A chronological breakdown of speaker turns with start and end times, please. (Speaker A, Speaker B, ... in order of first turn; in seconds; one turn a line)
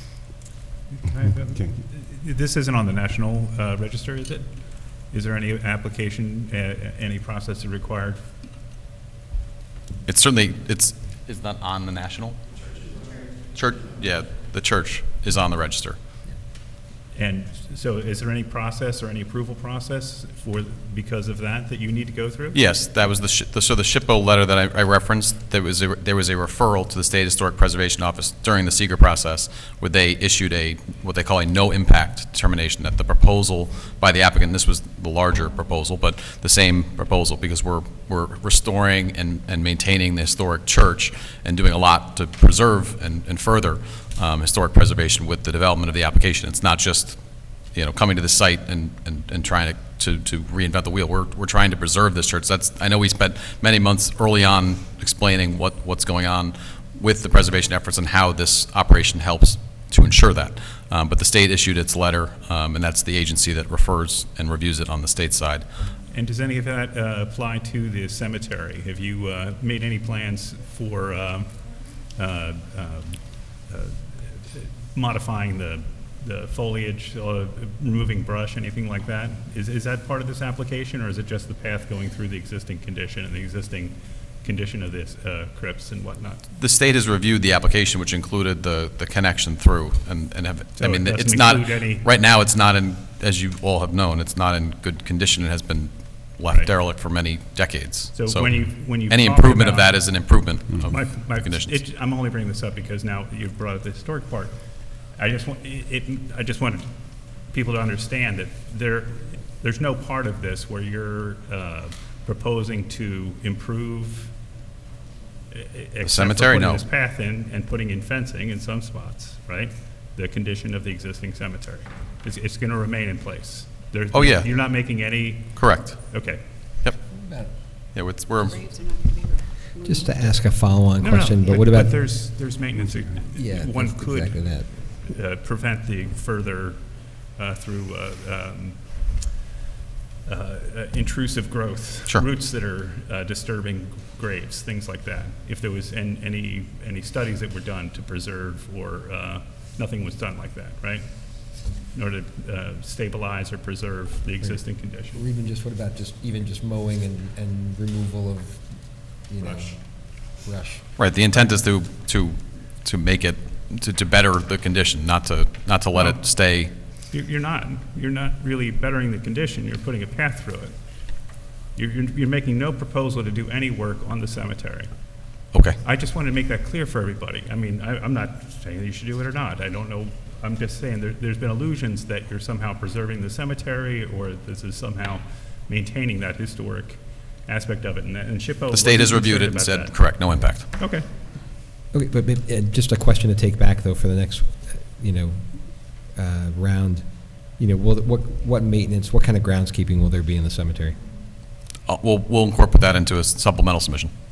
Speaker A: 0.9-8.2
Speaker B: 10.1-12.5
Speaker B: 13.5-16.0
Speaker A: 17.1-22.6
Speaker B: 22.5-65.7
Speaker A: 66.1-86.5
Speaker B: 86.5-101.8
Speaker A: 90.8-92.1
Speaker A: 96.5-96.8
Speaker A: 98.1-114.4
Speaker A: 115.5-126.4
Speaker B: 116.0-116.8
Speaker B: 124.1-124.5
Speaker B: 125.5-126.2
Speaker C: 127.1-127.6
Speaker B: 127.6-128.6
Speaker D: 128.4-130.6
Speaker C: 129.8-132.0
Speaker A: 131.0-139.1
Speaker C: 133.3-134.7
Speaker A: 140.2-155.2
Speaker C: 154.4-160.9
Speaker B: 161.0-166.7
Speaker A: 165.9-191.1
Speaker B: 175.5-175.8
Speaker B: 188.7-190.8
Speaker C: 191.9-201.0
Speaker B: 201.9-204.1